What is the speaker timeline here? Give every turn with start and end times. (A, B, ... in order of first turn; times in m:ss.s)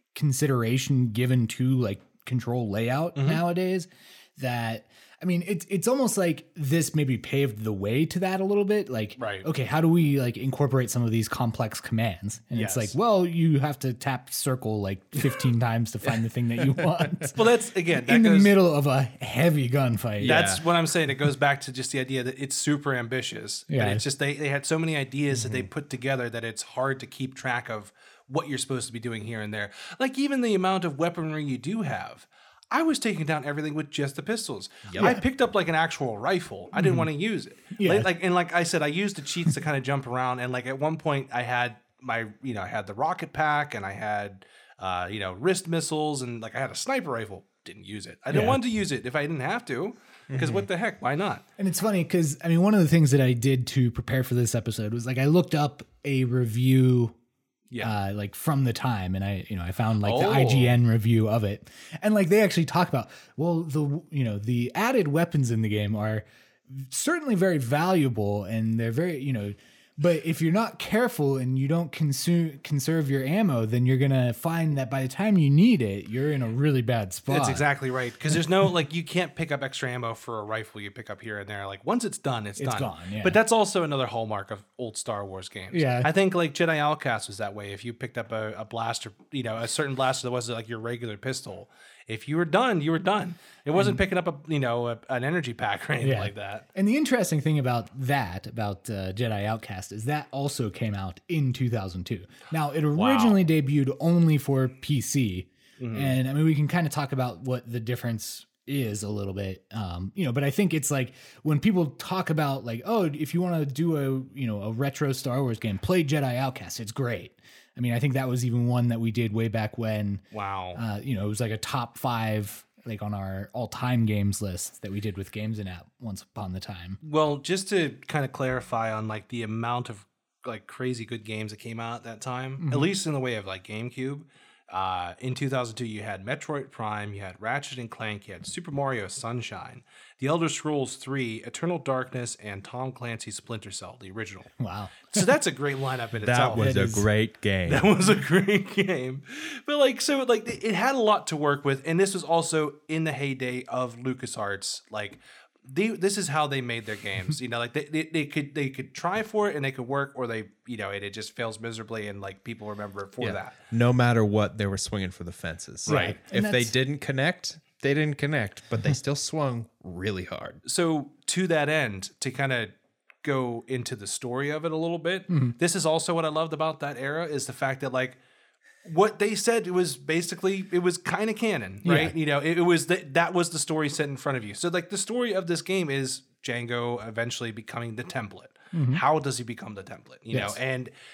0:00.2-0:17.5 A
0:03.2-0:03.4 B
0:09.2-0:09.5 B
0:12.6-0:12.9 B
0:17.3-0:18.5 B
0:18.1-0:20.6 A
0:20.2-0:20.6 C
0:20.2-0:51.4 B
0:23.7-0:24.0 A
0:34.9-0:35.1 C
0:36.8-0:37.1 A
0:37.8-0:38.1 A
0:48.3-0:48.6 A
0:50.3-0:50.7 C
0:51.6-0:57.2 A
0:57.8-1:17.6 A
1:00.0-1:00.7 B
1:17.3-1:36.7 B
1:22.6-1:23.4 A
1:25.7-1:26.1 A
1:33.8-1:34.0 A
1:36.0-2:00.2 A
1:42.9-1:43.4 B
1:45.8-1:46.2 B
2:00.3-2:00.8 B
2:00.8-2:07.0 A
2:07.0-2:24.5 B
2:12.6-2:12.9 A
2:24.6-2:25.2 A
2:25.1-2:26.7 B
2:26.2-2:27.9 C
2:26.6-2:27.1 A
2:27.7-2:43.6 B
2:43.2-2:50.6 C
2:45.9-2:46.7 A
2:50.6-2:58.2 B
2:55.3-2:55.6 A
2:58.8-3:10.9 B
3:01.8-3:02.1 A
3:08.7-3:09.0 A
3:10.3-3:10.6 A